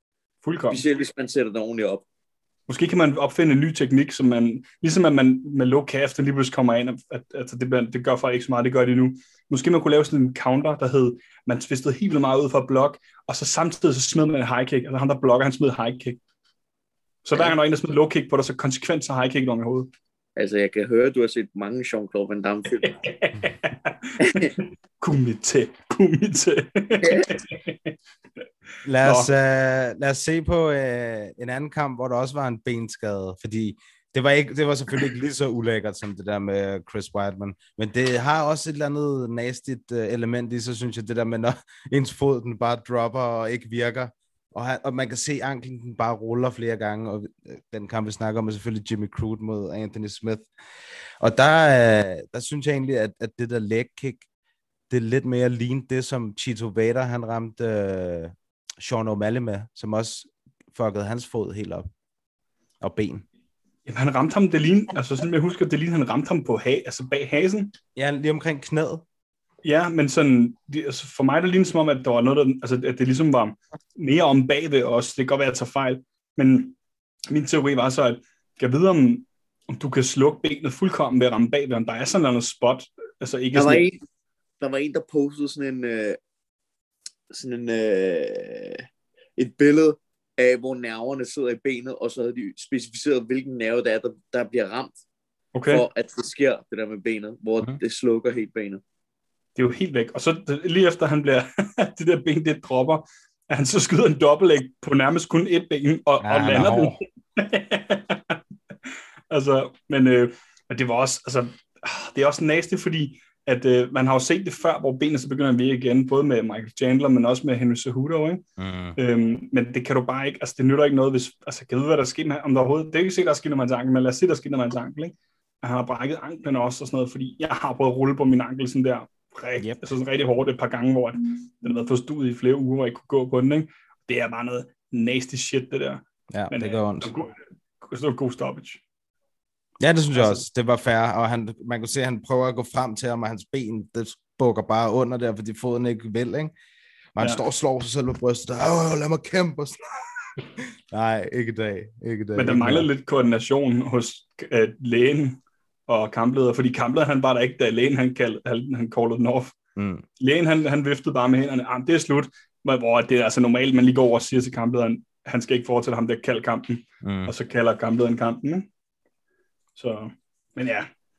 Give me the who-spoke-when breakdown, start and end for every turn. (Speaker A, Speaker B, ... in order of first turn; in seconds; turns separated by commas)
Speaker A: 0.4-0.8, Speaker B: 0.7-2.0, Speaker A: 2.7-16.2, Speaker A: 17.2-19.9, Speaker B: 20.4-23.0, Speaker A: 22.8-27.9, Speaker B: 24.2-24.5, Speaker C: 28.9-50.5, Speaker A: 29.0-29.3, Speaker C: 51.2-54.2, Speaker C: 54.9-61.9, Speaker C: 62.8-63.2, Speaker A: 63.9-67.7, Speaker C: 68.0-69.0, Speaker A: 69.6-76.8, Speaker A: 77.3-83.9, Speaker B: 83.5-84.0, Speaker B: 84.6-86.2, Speaker B: 87.3-88.8, Speaker B: 89.4-95.0, Speaker A: 95.5-95.8, Speaker B: 95.7-98.8, Speaker A: 99.6-108.4, Speaker C: 106.2-107.0, Speaker A: 109.3-118.4, Speaker C: 118.6-119.0, Speaker A: 119.0-138.8, Speaker C: 136.3-137.1, Speaker C: 139.8-146.5, Speaker A: 140.2-140.4, Speaker C: 147.2-149.8, Speaker C: 150.9-152.9, Speaker A: 152.4-159.5, Speaker C: 159.8-160.0, Speaker A: 160.2-168.7, Speaker C: 167.0-167.3, Speaker A: 169.8-170.9